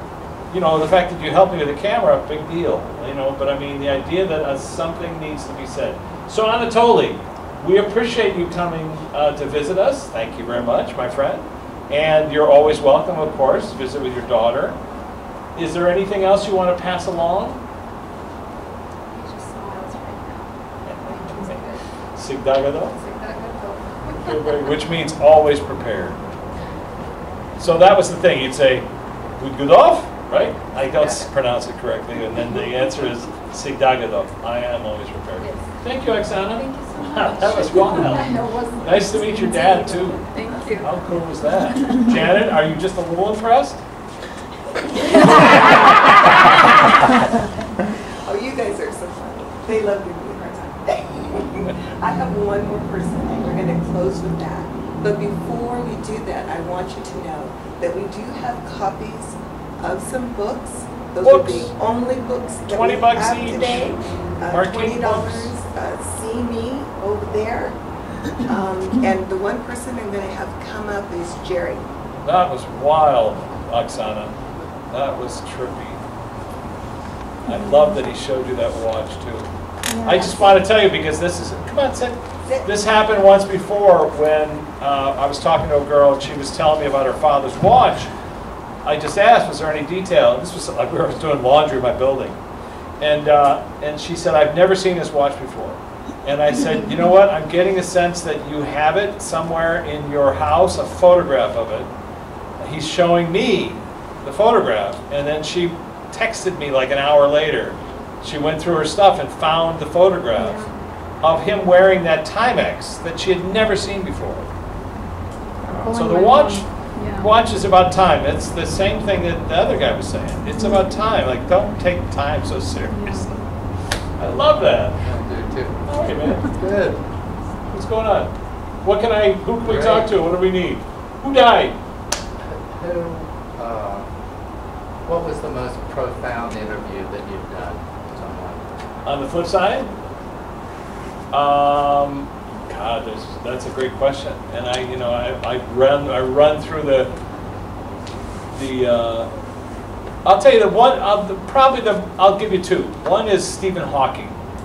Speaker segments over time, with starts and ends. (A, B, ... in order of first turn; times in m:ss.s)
0:00.5-0:14.8 A
0:15.6-0:17.6 A
0:19.1-0:21.8 B
0:20.8-0:23.0 A
0:22.9-0:24.8 B
0:24.2-0:26.2 A
0:27.6-0:28.9 A
0:29.4-0:38.3 A
0:35.4-0:41.0 B
0:38.8-0:40.2 A
0:40.8-0:43.8 A
0:45.0-0:45.9 B
0:48.2-1:07.8 C
1:01.2-1:01.7 A
1:02.7-1:03.9 A
1:04.5-1:05.5 A
1:08.4-1:11.8 C
1:12.2-1:14.4 A
1:14.9-1:16.0 A
1:17.4-1:19.5 A
1:19.9-1:20.6 B
1:20.0-1:28.1 A
1:28.8-1:32.4 A
1:33.0-1:41.9 A
1:42.6-1:50.6 A
1:50.4-1:50.7 B
1:51.2-1:54.5 A
1:55.7-1:57.4 B
1:55.9-1:56.6 A
1:57.2-2:03.3 A
2:02.9-2:03.4 B
2:04.2-2:05.0 A
2:05.0-2:05.8 D
2:05.9-2:06.6 A
2:06.4-2:07.0 D
2:07.7-2:08.3 A
2:08.8-2:11.8 A
2:09.6-2:10.1 D
2:12.5-2:14.1 D
2:15.1-2:18.8 D
2:19.0-2:19.9 A
2:21.3-2:27.1 A
2:28.5-2:29.3 A
2:30.2-2:34.4 A